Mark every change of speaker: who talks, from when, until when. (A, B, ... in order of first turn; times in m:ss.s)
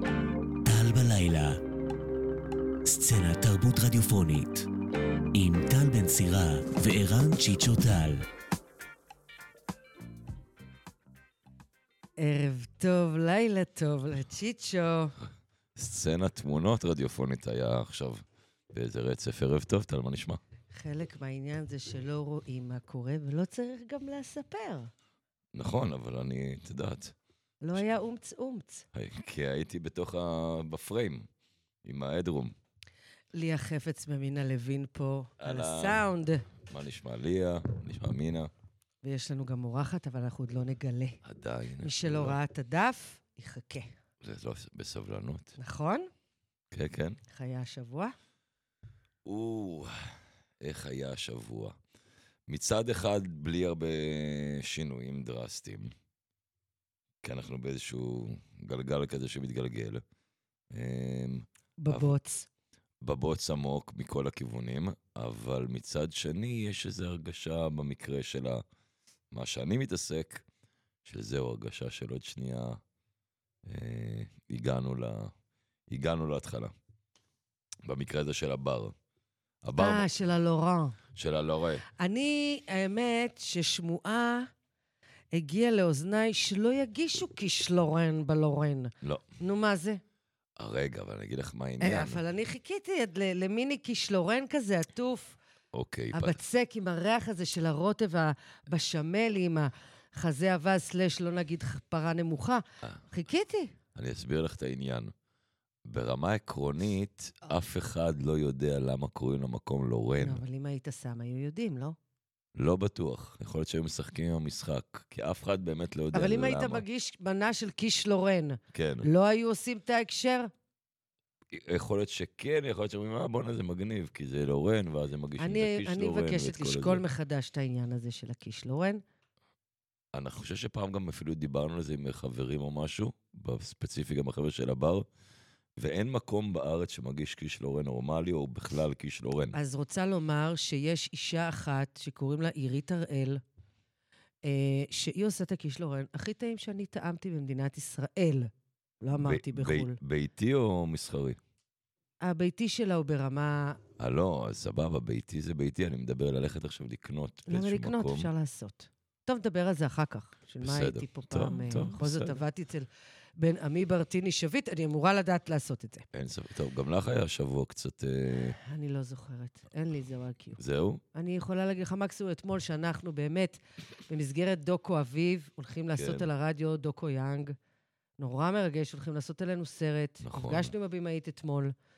0:00.6-0:01.6 A
0:02.8-0:04.7 A
0:05.3-0:08.3 A
0:12.2-0:15.2 B
0:15.8-0:20.4 C
0:20.7-0:24.9 B
0:25.5-0:27.2 C
0:27.6-0:28.9 B
0:28.9-0:31.3 C
0:31.8-0:32.6 C
0:33.3-0:36.4 B
0:35.4-0:36.1 C
0:36.7-0:38.5 C
0:39.0-0:41.2 B
0:41.2-0:42.4 C
0:41.8-0:43.9 B
0:44.2-0:45.6 C
0:45.6-0:46.1 B
0:46.7-0:47.2 C
0:47.3-0:48.1 B
0:49.2-0:51.8 C
0:52.5-0:55.9 C
0:57.2-1:00.0 C
1:00.7-1:02.1 C
1:01.8-1:02.5 B
1:03.0-1:08.6 C
1:09.3-1:10.4 C
1:11.0-1:12.8 C
1:13.6-1:15.3 C
1:15.9-1:16.7 C
1:17.8-1:19.0 C
1:19.6-1:20.1 C
1:19.8-1:21.0 B
1:21.2-1:21.9 C
1:22.0-1:24.5 B
1:25.3-1:30.0 B
1:30.6-1:32.2 C
1:31.8-1:35.4 B
1:35.7-1:36.4 C
1:36.1-1:43.8 B
1:44.0-1:45.1 C
1:45.9-1:50.4 C
1:50.2-1:52.0 B
1:52.6-1:56.8 C
1:56.1-2:00.5 B
1:58.7-1:59.1 C
2:01.5-2:07.0 C
2:05.4-2:09.0 B
2:10.1-2:15.1 C
2:15.8-2:19.6 C
2:19.5-2:23.4 B
2:24.4-2:30.0 B
2:29.1-2:31.4 C
2:32.2-2:33.8 B
2:34.0-2:38.3 C
2:37.5-2:46.0 B
2:40.6-2:42.4 C
2:46.1-2:48.6 C
2:48.6-2:50.6 B
2:50.6-2:51.0 C
2:51.1-2:57.6 B
2:55.9-2:56.3 C
2:58.2-3:01.7 B
3:00.2-3:00.7 C